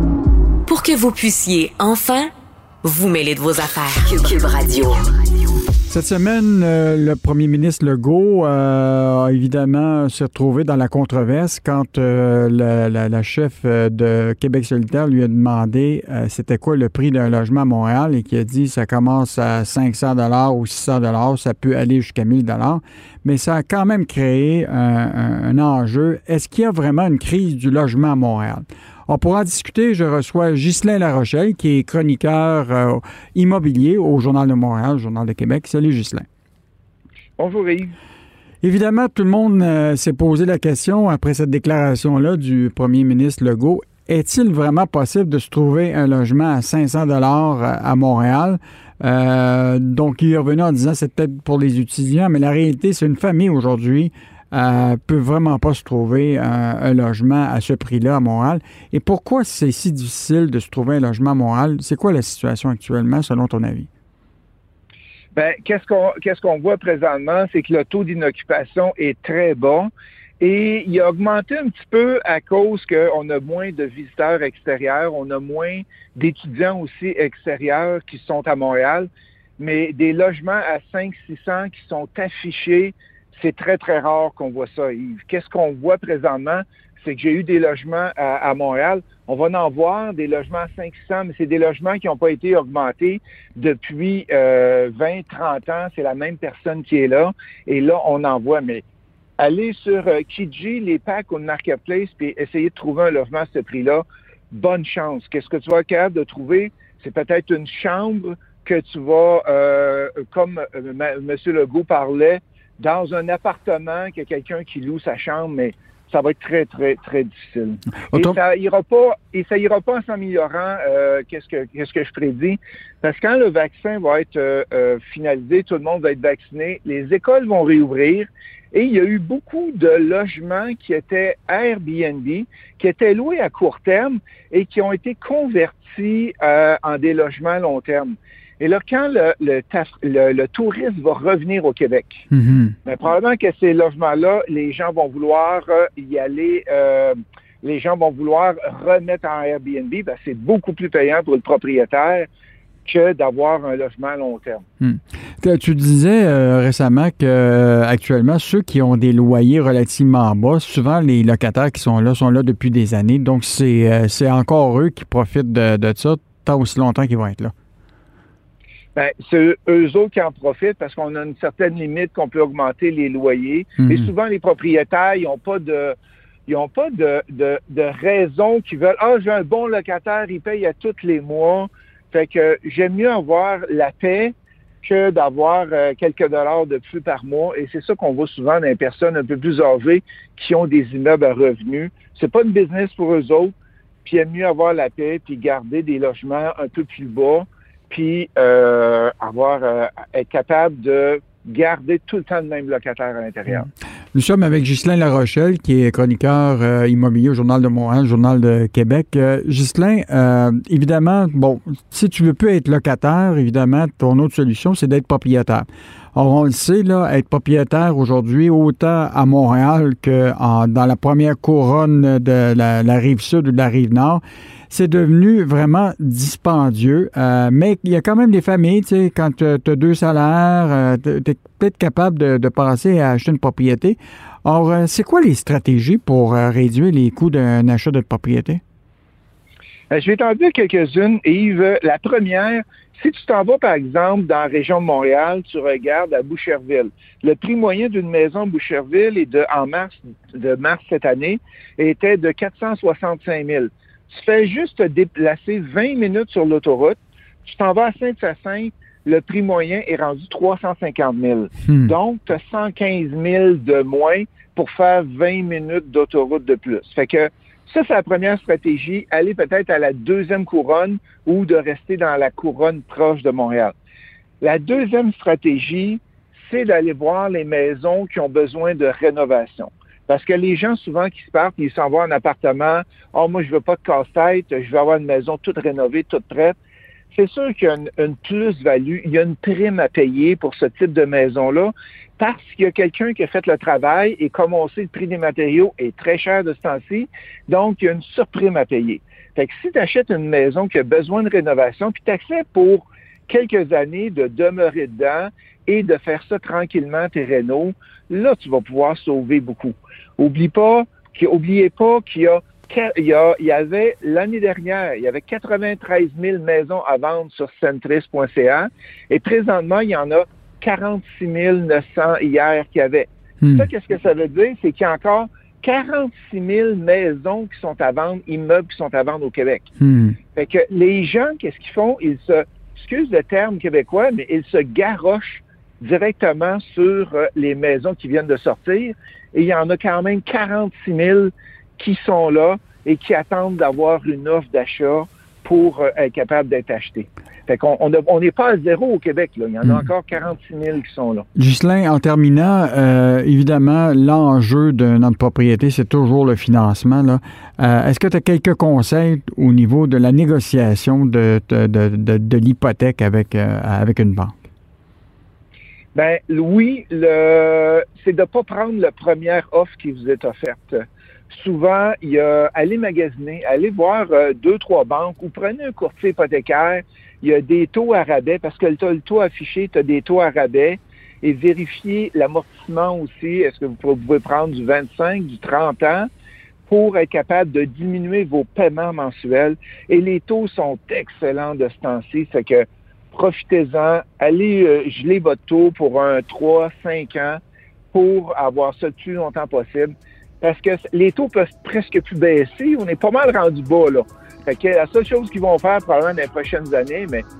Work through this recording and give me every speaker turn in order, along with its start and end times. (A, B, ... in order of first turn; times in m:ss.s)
0:00.6-0:02.3 A
0:02.8-0:05.0 A
0:05.9-0:36.2 B
0:37.4-0:37.9 C
0:38.6-1:03.9 B
1:05.3-1:09.9 C
1:10.4-1:19.1 C
1:19.6-1:38.8 C
1:39.4-2:22.2 C
2:22.3-2:22.7 B
2:22.8-2:32.3 C
2:32.8-2:34.6 C
2:34.8-2:47.5 B
2:48.9-3:13.5 C
2:53.8-2:54.1 B
3:14.0-3:23.7 C
3:24.1-3:58.6 B
3:59.9-4:33.7 C
4:34.4-4:46.6 C
4:47.1-5:29.7 C
5:23.4-5:23.7 B
5:29.8-5:30.2 B
5:30.3-5:51.3 C
5:51.4-6:04.4 B
6:05.9-6:26.1 C
6:26.7-6:37.4 C
6:37.9-6:47.3 C